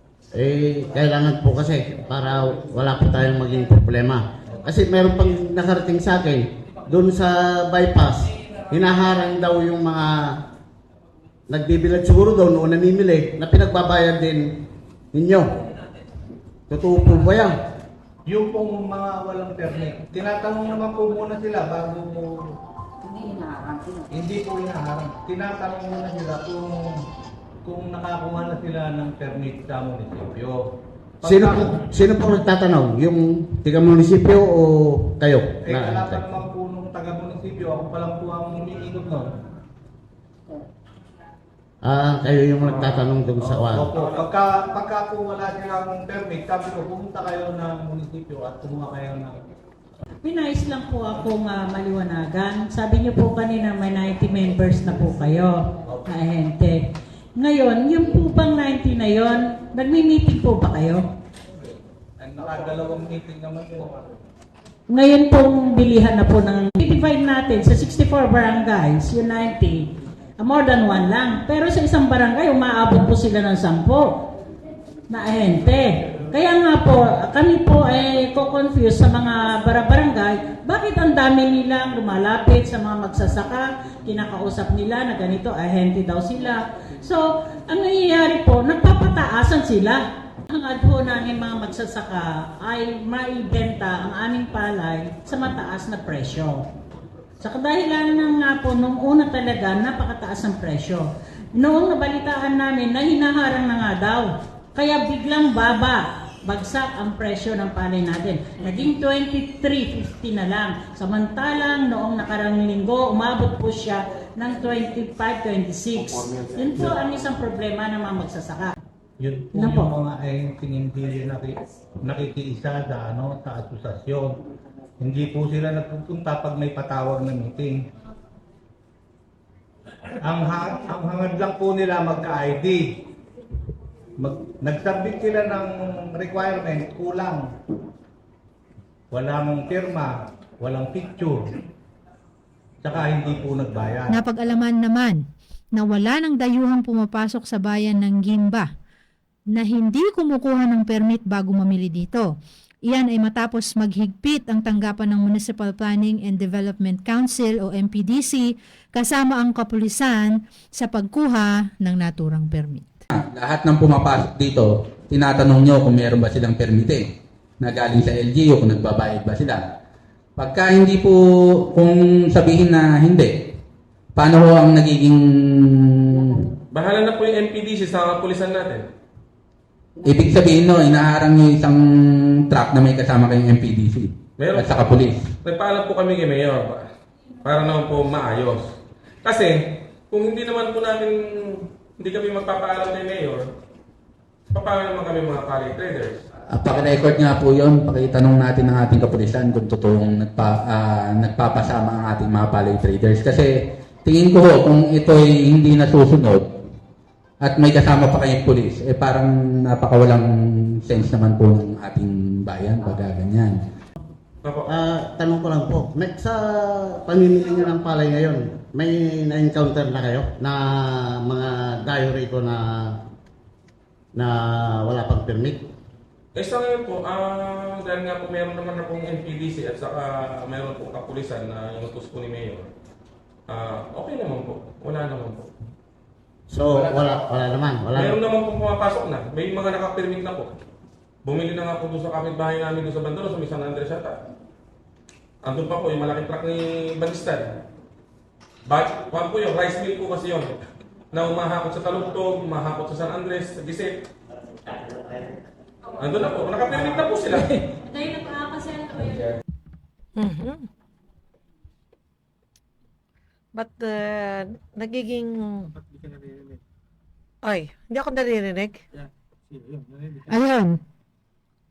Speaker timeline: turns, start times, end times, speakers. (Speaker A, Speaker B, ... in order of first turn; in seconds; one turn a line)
Speaker A: 0.3-10.4
Speaker A: 11.5-15.5
Speaker A: 16.7-17.6
Speaker B: 18.3-22.5
Speaker B: 24.1-27.0
Speaker B: 27.6-30.6
Speaker B: 31.2-31.8
Speaker A: 31.2-36.2
Speaker B: 35.6-39.3
Speaker A: 41.8-43.9
Speaker B: 43.4-49.4
Speaker C: 50.2-61.1
Speaker B: 62.2-64.2
Speaker C: 64.9-74.2
Speaker C: 75.1-96.6
Speaker C: 97.4-118.8
Speaker B: 119.2-124.4
Speaker C: 119.5-119.9
Speaker B: 125.0-127.8
Speaker B: 130.2-133.0
Speaker B: 134.2-137.5
Speaker B: 139.1-141.6
Speaker B: 142.8-144.2
Speaker D: 144.1-148.7
Speaker D: 149.5-152.3
Speaker D: 152.9-162.9
Speaker E: 163.1-169.6
Speaker E: 170.4-173.6
Speaker E: 174.2-176.5
Speaker F: 176.7-178.9
Speaker E: 180.0-185.3
Speaker F: 184.4-186.9
Speaker F: 187.4-188.7
Speaker F: 189.2-193.5
Speaker F: 194.5-196.2
Speaker E: 196.5-206.5
Speaker E: 207.4-213.6
Speaker F: 214.4-214.7
Speaker A: 214.7-223.0
Speaker A: 224.2-225.6
Speaker F: 226.4-232.7
Speaker F: 233.5-235.5
Speaker A: 236.5-238.2
Speaker F: 237.9-240.5
Speaker F: 241.2-244.2
Speaker F: 245.4-247.6
Speaker F: 248.7-250.6
Speaker F: 251.1-254.1
Speaker F: 256.0-257.6
Speaker C: 257.8-259.0
Speaker F: 258.9-259.4
Speaker G: 260.2-260.7
Speaker G: 263.6-265.7
Speaker G: 267.4-268.8
Speaker D: 270.3-270.8